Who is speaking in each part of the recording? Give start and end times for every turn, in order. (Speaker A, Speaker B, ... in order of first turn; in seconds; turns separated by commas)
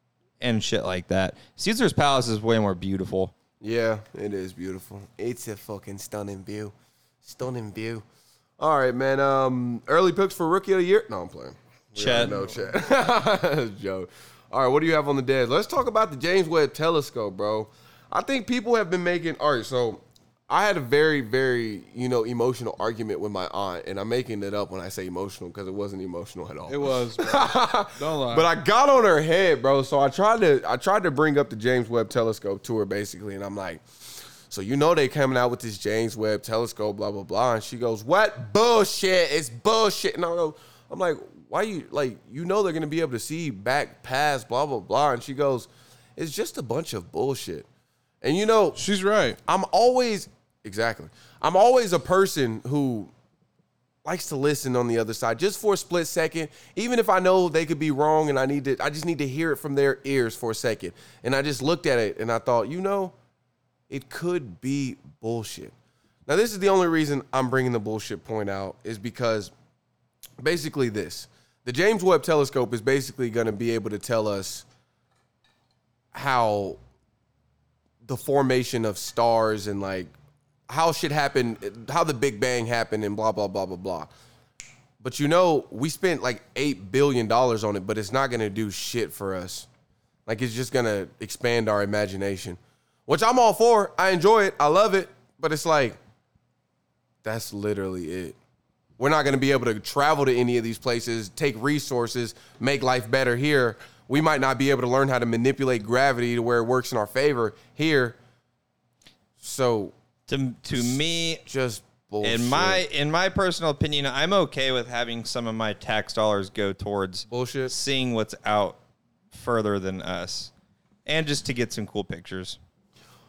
Speaker A: 0.4-3.3, Speaker B: 3.6-8.0, Speaker B: 8.6-33.8, Speaker A: 12.0-12.6, Speaker C: 26.7-28.5, Speaker B: 34.5-47.7, Speaker B: 48.2-48.8, Speaker C: 48.8-49.4, Speaker B: 49.5-53.1, Speaker B: 54.0-63.1, Speaker B: 63.9-65.7, Speaker B: 66.3-69.5, Speaker B: 70.4-74.7, Speaker B: 76.1-76.8, Speaker B: 78.0-80.1, Speaker B: 80.7-84.1, Speaker B: 85.0-89.7, Speaker B: 90.3-96.0, Speaker B: 97.2-98.4, Speaker B: 99.0-108.2, Speaker B: 109.4-109.9, Speaker A: 110.3-111.4, Speaker B: 111.5-112.8, Speaker A: 112.2-118.8, Speaker B: 117.3-117.7, Speaker A: 119.3-120.5, Speaker A: 121.1-122.6